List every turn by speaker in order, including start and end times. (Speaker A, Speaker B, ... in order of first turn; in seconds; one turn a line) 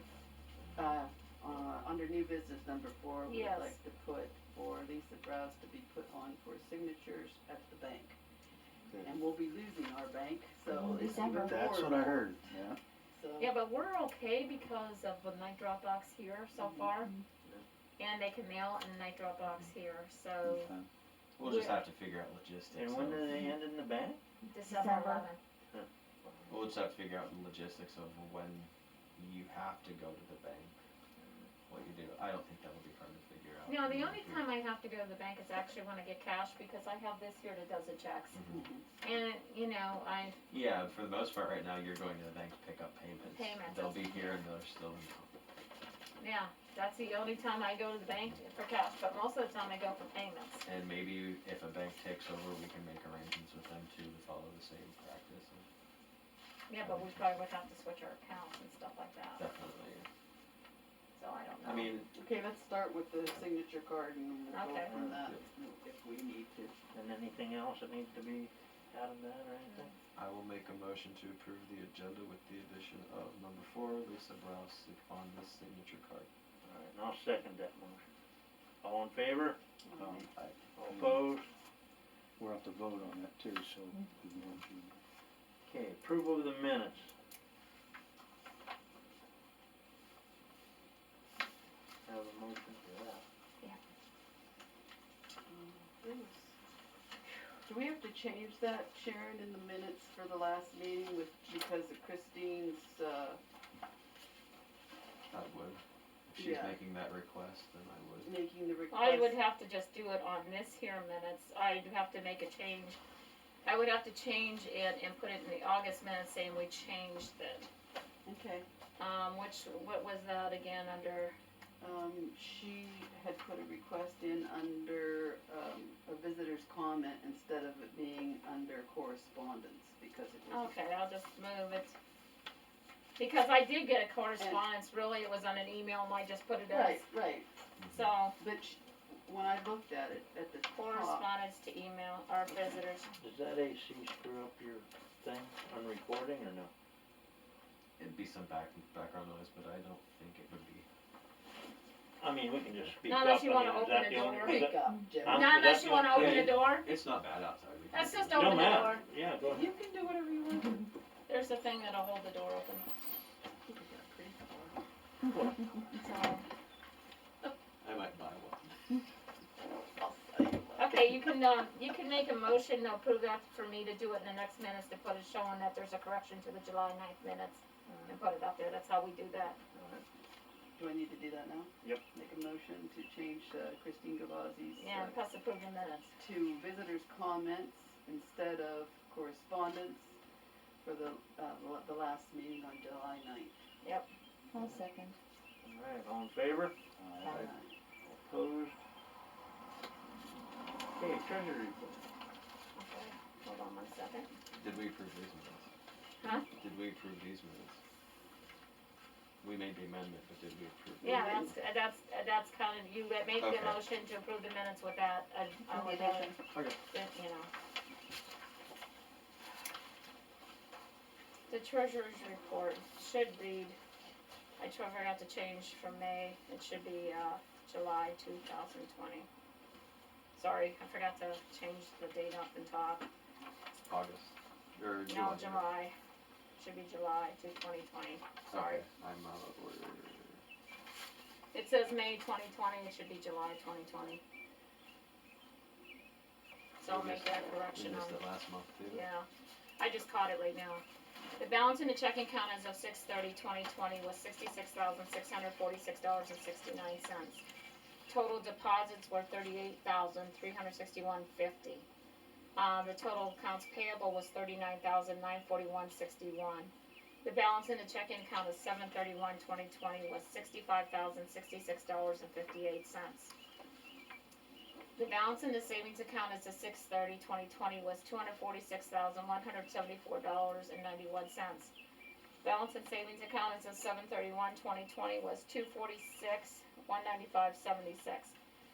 Speaker A: 0.7-8.2
Speaker B: 3.2-3.8
Speaker A: 9.0-12.2
Speaker C: 10.8-11.4
Speaker D: 11.3-12.8
Speaker A: 13.1-13.6
Speaker B: 13.4-17.1
Speaker A: 16.6-16.9
Speaker B: 18.0-20.7
Speaker D: 20.4-20.9
Speaker E: 21.4-23.3
Speaker B: 21.4-21.8
Speaker F: 22.7-24.2
Speaker B: 24.5-25.4
Speaker C: 24.6-25.2
Speaker F: 25.7-26.3
Speaker E: 26.5-30.7
Speaker E: 31.7-34.4
Speaker B: 33.6-38.4
Speaker E: 38.3-38.6
Speaker A: 38.5-38.9
Speaker B: 39.0-40.4
Speaker E: 40.5-45.3
Speaker B: 43.3-44.4
Speaker B: 46.2-50.6
Speaker E: 50.6-55.6
Speaker B: 56.7-59.4
Speaker E: 56.8-57.2
Speaker E: 59.4-60.1
Speaker B: 61.2-61.9
Speaker E: 61.6-62.1
Speaker A: 62.1-66.7
Speaker B: 64.5-64.9
Speaker E: 65.0-65.4
Speaker F: 66.9-69.9
Speaker E: 70.1-76.3
Speaker F: 76.6-78.0
Speaker F: 78.8-79.6
Speaker A: 79.8-80.3
Speaker D: 80.0-80.3
Speaker F: 80.8-81.5
Speaker D: 80.9-81.3
Speaker D: 82.4-85.0
Speaker F: 85.6-87.1
Speaker F: 92.0-93.2
Speaker A: 95.5-96.5
Speaker A: 97.6-103.4
Speaker E: 105.3-108.3
Speaker A: 106.3-106.8
Speaker A: 108.2-109.3
Speaker B: 108.9-113.0
Speaker B: 113.6-117.7
Speaker A: 118.2-118.7
Speaker B: 119.0-121.3
Speaker A: 121.8-130.7
Speaker B: 130.5-131.9
Speaker B: 133.2-137.1
Speaker A: 136.7-137.5
Speaker E: 137.8-138.1
Speaker B: 137.9-138.4
Speaker A: 138.4-141.3
Speaker B: 140.7-143.1
Speaker F: 143.2-146.7
Speaker E: 148.0-150.8
Speaker F: 152.2-156.4
Speaker B: 153.0-156.9
Speaker A: 154.3-156.4
Speaker E: 156.1-158.8
Speaker B: 157.9-159.0
Speaker F: 158.3-159.7
Speaker A: 159.4-160.9
Speaker B: 161.3-162.8
Speaker A: 163.7-164.8
Speaker A: 165.7-166.0
Speaker B: 165.9-166.4
Speaker E: 167.8-168.7
Speaker A: 169.9-171.3
Speaker B: 170.8-179.6
Speaker F: 179.7-180.0
Speaker A: 180.8-185.2
Speaker B: 184.8-186.1
Speaker A: 186.2-190.2
Speaker A: 190.8-193.6
Speaker B: 193.8-194.1
Speaker C: 194.5-195.1
Speaker F: 195.6-196.7
Speaker D: 197.0-197.5
Speaker A: 197.2-197.7
Speaker F: 198.1-198.8
Speaker F: 200.9-202.1
Speaker B: 202.8-204.3
Speaker E: 204.5-205.7
Speaker B: 206.2-206.5
Speaker E: 206.6-207.8
Speaker E: 209.4-211.5
Speaker A: 211.0-211.5
Speaker B: 211.0-216.3
Speaker E: 213.3-213.8
Speaker A: 215.7-216.3
Speaker B: 216.9-217.5
Speaker B: 221.5-223.8
Speaker B: 224.6-229.3
Speaker B: 230.3-233.1
Speaker E: 233.8-235.6
Speaker B: 235.1-235.9
Speaker B: 236.6-238.8
Speaker E: 238.5-240.4
Speaker B: 241.5-244.2
Speaker B: 246.8-248.2
Speaker E: 246.9-249.1
Speaker B: 248.8-249.2
Speaker B: 249.8-250.8
Speaker B: 251.4-257.4
Speaker B: 258.1-261.9
Speaker B: 262.6-266.7
Speaker B: 267.2-273.3
Speaker B: 274.9-281.7
Speaker B: 282.4-288.3